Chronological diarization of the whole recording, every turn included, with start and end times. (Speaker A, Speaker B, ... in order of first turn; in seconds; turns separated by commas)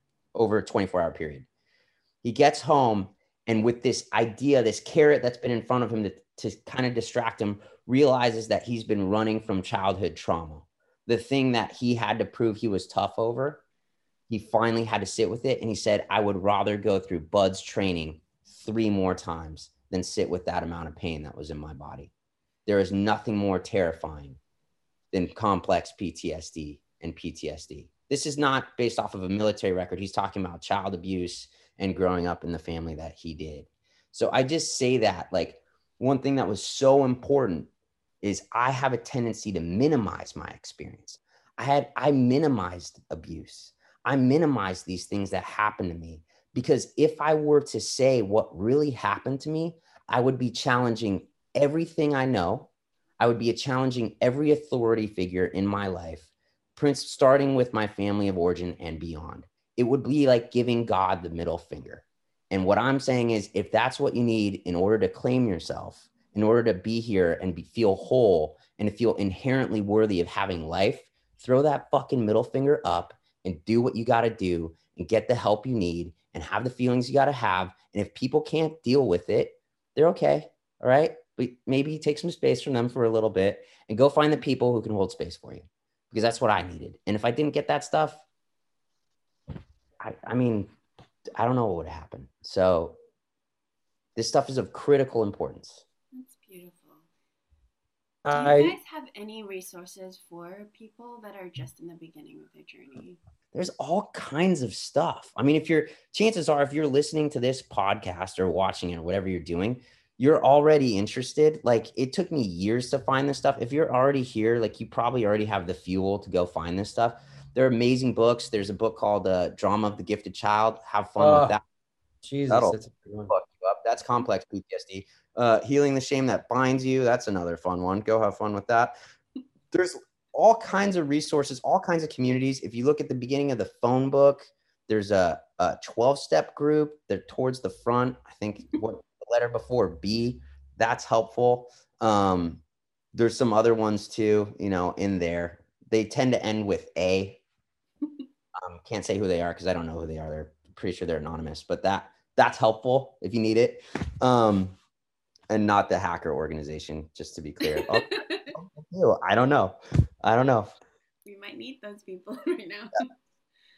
Speaker A: 0.3-1.4, Speaker A: 2.2-13.6, Speaker A: 14.3-22.1, Speaker A: 22.6-24.4, Speaker A: 25.1-37.7, Speaker A: 38.2-52.7, Speaker A: 53.2-88.2, Speaker A: 90.0-90.7, Speaker A: 91.3-93.0, Speaker A: 94.2-95.8, Speaker B: 96.1-97.0, Speaker C: 98.2-98.8, Speaker B: 98.3-103.2, Speaker A: 103.5-121.6, Speaker C: 121.2-121.6, Speaker C: 122.2-123.3, Speaker A: 123.3-128.9, Speaker A: 129.7-142.6, Speaker A: 143.1-147.4, Speaker A: 148.6-154.8, Speaker A: 155.5-160.7, Speaker B: 157.6-158.6, Speaker B: 161.2-163.1